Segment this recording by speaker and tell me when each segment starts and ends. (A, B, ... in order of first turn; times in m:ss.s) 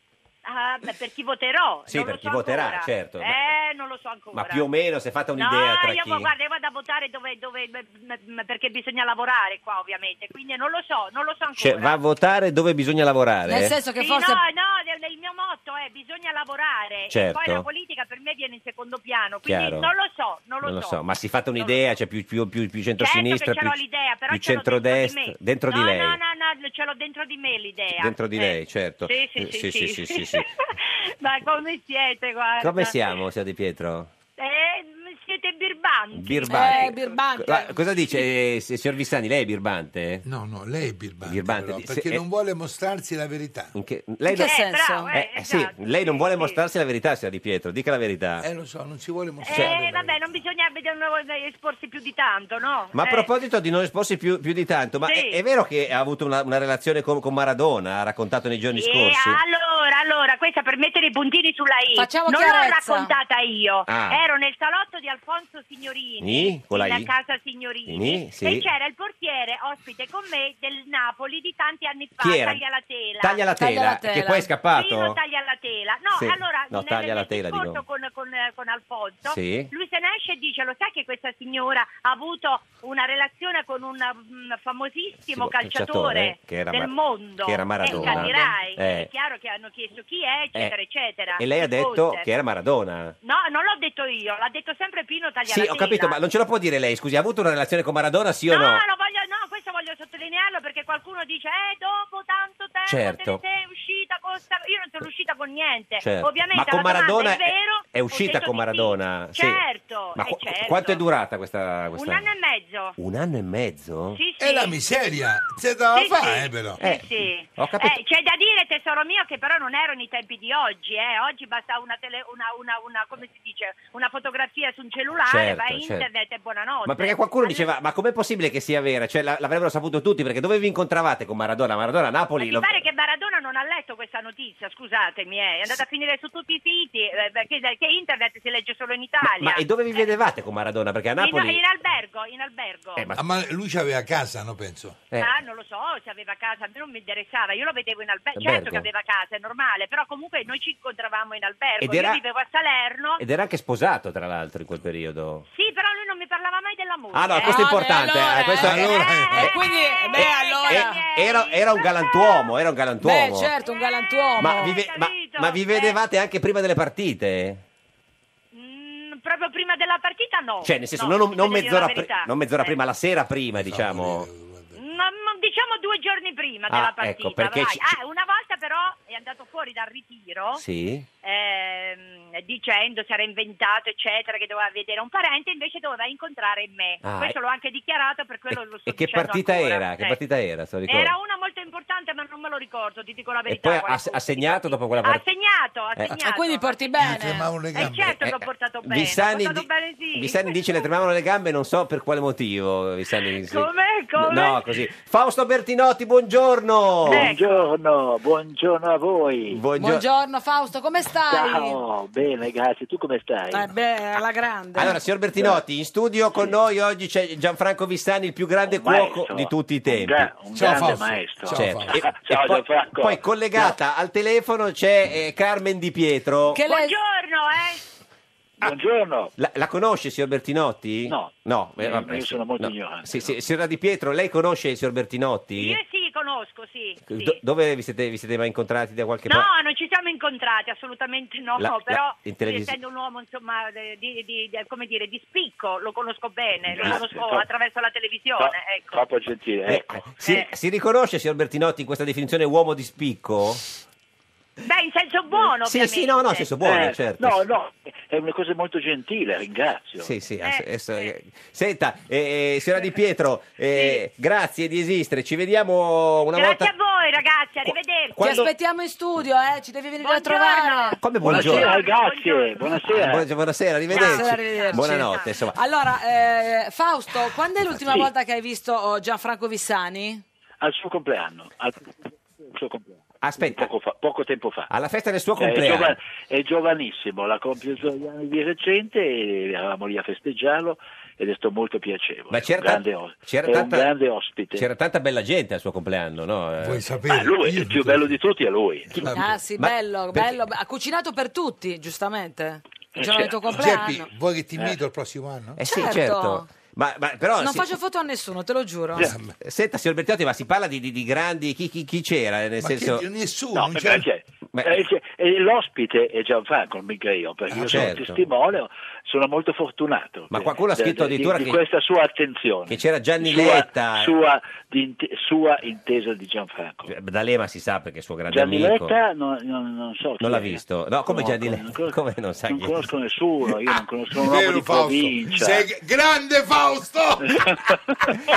0:00.4-0:04.6 A
0:01.9-0:03.5 B
0:04.3-0:06.3 B
0:05.4-0:12.0 A
0:11.6-0:13.8 B
0:13.5-0:14.4 C
0:13.9-0:21.0 A
0:17.1-0:17.6 B
0:19.4-0:19.9 B
0:20.6-0:23.8 B
0:23.0-0:28.5 A
0:24.3-0:26.2 B
0:28.0-0:30.4 B
0:29.0-0:33.2 A
0:32.6-0:34.1 B
0:34.4-0:37.1 A
0:36.1-0:40.2 B
0:36.5-0:37.8 C
0:40.2-0:43.7 D
0:41.2-0:42.2 B
0:43.7-0:44.6 B
0:44.3-0:45.1 C
0:44.3-0:46.6 A
0:45.1-0:48.5 B
0:48.4-0:50.4 D
0:49.4-0:53.3 A
0:49.5-0:49.8 B
0:52.9-0:59.4 B
0:55.1-0:55.4 A
0:58.7-1:13.4 A
1:02.0-1:03.1 C
1:03.9-1:04.2 B
1:06.2-1:07.1 B
1:07.8-1:08.7 B
1:12.2-1:12.6 B
1:13.2-1:15.2 B
1:13.6-1:14.5 C
1:14.7-1:32.2 A
1:16.2-1:17.8 B
1:19.2-1:19.7 B
1:25.3-1:29.1 B
1:31.4-1:33.2 B
1:33.2-1:36.2 A
1:35.4-1:38.8 B
1:38.5-1:51.0 A
1:42.9-1:43.4 B
1:46.0-1:49.6 B
1:50.1-1:52.2 B
1:52.0-1:53.0 A
1:53.0-1:54.2 B
1:54.1-1:54.8 A
1:54.4-1:56.8 D
1:55.9-2:07.6 A
1:56.8-1:58.0 B
2:05.2-2:06.0 B
2:06.8-2:12.8 B
2:12.4-2:20.1 A
2:19.2-2:21.6 B
2:21.2-2:23.0 A
2:23.0-2:23.2 B
2:23.1-2:25.0 D
2:25.2-2:33.2 A
2:28.4-2:28.9 B
2:31.8-2:32.2 B
2:33.2-2:35.4 B
2:35.5-2:37.7 A
2:37.1-2:39.5 B
2:37.4-2:41.0 C
2:38.6-2:39.4 D
2:38.8-2:42.5 A
2:40.2-2:43.5 B
2:43.0-2:44.7 C
2:43.6-2:46.0 A
2:44.4-2:47.6 B
2:48.5-2:52.8 A
2:50.6-2:54.3 B
2:53.5-2:54.8 D
2:54.8-3:00.6 A
2:56.7-2:58.0 B
3:00.5-3:01.1 B
3:01.2-3:10.2 A
3:07.0-3:07.4 B
3:08.5-3:11.1 B
3:10.9-3:17.1 A
3:13.4-3:15.2 B
3:16.1-3:17.5 C
3:17.0-3:18.2 D
3:17.7-3:20.9 A
3:18.1-3:27.3 B
3:23.3-3:24.6 A
3:27.0-3:27.7 A
3:27.1-3:29.6 E
3:29.5-3:30.0 B
3:29.8-3:31.8 C
3:31.3-3:33.7 E
3:33.5-3:35.0 C
3:34.8-3:40.3 B
3:38.6-3:43.7 E
3:40.5-3:42.0 D
3:41.5-3:46.6 B
3:46.5-3:46.9 C
3:46.6-3:47.8 A
3:48.6-3:49.3 E
3:49.4-3:55.8 B
3:51.1-3:53.3 E
3:55.5-3:57.4 A
3:57.1-3:59.5 B
3:59.2-4:09.0 A
4:01.6-4:02.7 B
4:06.7-4:07.4 E
4:08.4-4:10.2 E
4:09.7-4:13.6 B
4:14.6-4:16.5 A
4:15.6-4:17.3 B
4:16.6-4:20.1 E
4:20.0-4:26.7 B
4:20.4-4:21.1 A
4:23.7-4:24.0 A
4:26.3-4:28.4 A
4:27.6-4:28.5 B
4:28.2-4:31.0 C
4:30.0-4:32.9 A
4:31.0-4:31.8 B
4:31.2-4:33.3 E
4:32.8-4:35.6 B
4:33.9-4:35.4 A
4:33.9-4:40.2 C
4:40.6-4:44.7 E
4:43.2-4:43.7 B
4:44.7-4:46.0 B
4:45.4-4:54.6 E
4:52.3-4:53.9 B
4:54.5-4:56.9 B
4:56.6-4:58.1 D
4:57.0-4:58.9 E
4:58.9-4:59.3 D
4:58.9-5:00.4 B
4:59.1-5:04.1 C
5:03.0-5:03.4 E
5:03.5-5:05.6 D
5:05.6-5:07.7 B
5:05.6-5:06.5 C
5:07.4-5:09.1 C
5:09.0-5:09.3 D
5:09.4-5:13.0 B
5:12.6-5:14.0 D
5:13.5-5:26.9 E
5:14.5-5:14.8 B
5:17.5-5:18.0 D
5:17.7-5:18.2 B
5:20.3-5:21.6 B
5:22.7-5:24.1 B
5:26.9-5:29.0 B
5:28.3-5:35.6 E
5:30.2-5:32.9 B
5:34.2-5:37.4 D
5:37.3-5:37.6 E